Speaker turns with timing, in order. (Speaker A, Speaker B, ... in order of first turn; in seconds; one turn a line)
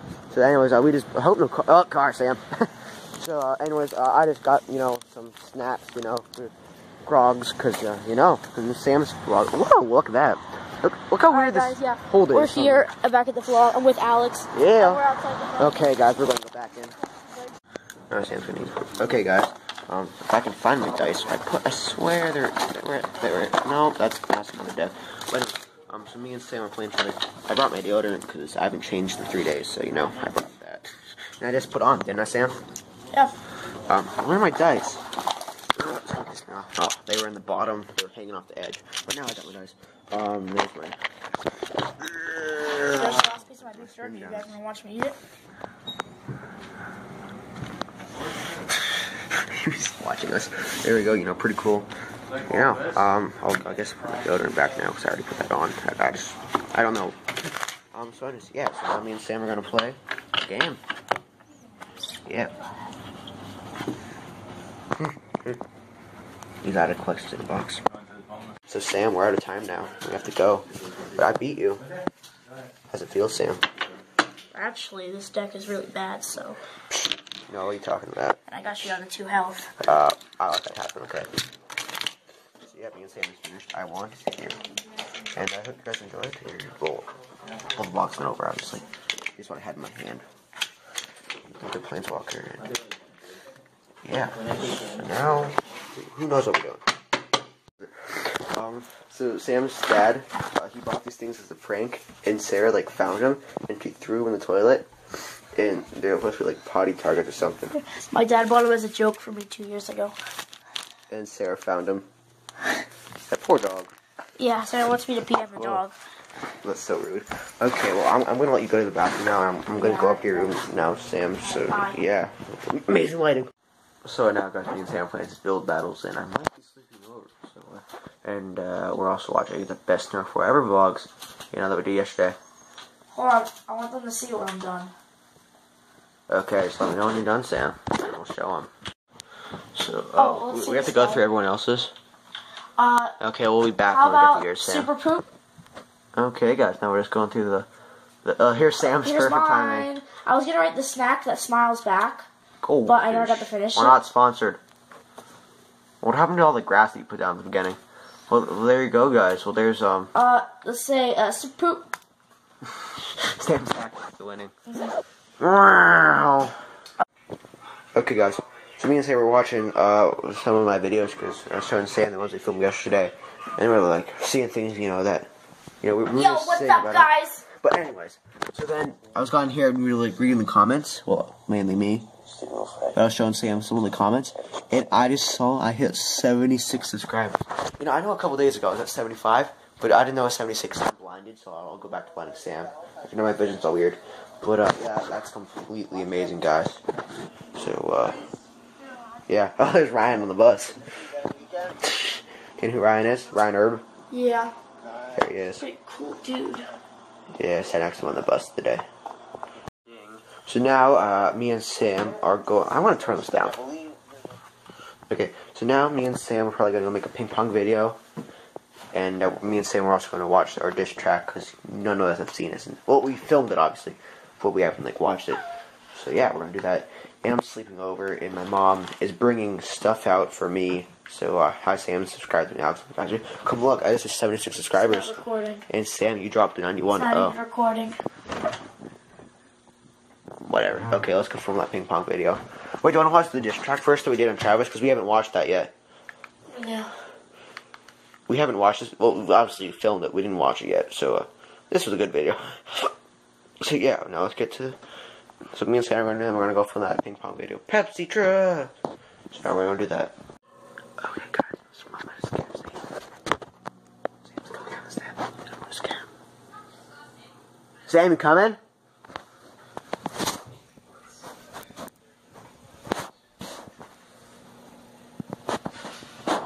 Speaker A: 0.3-12.9
Speaker B: 11.3-15.8
Speaker A: 14.5-15.0
Speaker A: 15.6-17.0
Speaker A: 18.1-32.6
Speaker A: 33.9-35.0
Speaker A: 35.8-41.0
Speaker A: 41.9-44.5
Speaker B: 42.9-45.2
Speaker A: 48.5-57.2
Speaker A: 57.9-60.8
Speaker A: 62.2-62.5
Speaker A: 65.0-65.6
Speaker A: 66.6-67.8
Speaker A: 68.7-71.8
Speaker A: 72.9-73.7
Speaker B: 74.5-76.6
Speaker A: 76.9-78.4
Speaker B: 78.5-79.7
Speaker A: 79.8-81.3
Speaker A: 82.6-84.6
Speaker A: 85.3-87.1
Speaker A: 87.7-90.2
Speaker A: 91.5-92.8
Speaker A: 94.0-96.9
Speaker A: 97.8-107.8
Speaker B: 107.8-110.2
Speaker A: 111.1-112.1
Speaker A: 113.3-113.9
Speaker B: 114.4-116.0
Speaker A: 115.5-115.8
Speaker A: 116.4-123.5
Speaker B: 119.8-120.6
Speaker B: 121.4-122.0
Speaker A: 124.0-132.4
Speaker B: 133.1-134.9
Speaker A: 136.3-138.7
Speaker A: 139.7-141.9
Speaker B: 140.2-141.2
Speaker B: 142.8-143.2
Speaker A: 143.2-144.9
Speaker B: 143.9-145.3
Speaker A: 146.2-147.7
Speaker A: 148.2-149.9
Speaker B: 149.0-152.3
Speaker A: 152.6-154.6
Speaker B: 152.8-154.0
Speaker A: 156.0-160.1
Speaker B: 160.1-161.9
Speaker A: 162.7-164.5
Speaker A: 165.4-166.6
Speaker A: 167.9-175.3
Speaker A: 175.8-196.8
Speaker B: 176.1-177.4
Speaker A: 197.5-198.3
Speaker A: 199.3-201.1
Speaker A: 201.6-203.8
Speaker B: 204.1-204.5
Speaker A: 205.1-205.7
Speaker B: 205.6-206.7
Speaker A: 207.3-208.8
Speaker A: 209.9-213.8
Speaker A: 215.1-218.0
Speaker A: 218.9-225.4
Speaker A: 225.9-235.1
Speaker B: 234.8-235.6
Speaker A: 235.7-237.3
Speaker B: 236.9-238.0
Speaker A: 240.4-245.7
Speaker B: 246.5-246.9
Speaker A: 248.3-252.9
Speaker A: 253.6-254.8
Speaker A: 255.5-258.7
Speaker A: 259.3-260.1
Speaker A: 261.0-263.0
Speaker A: 264.3-266.1
Speaker A: 267.9-268.6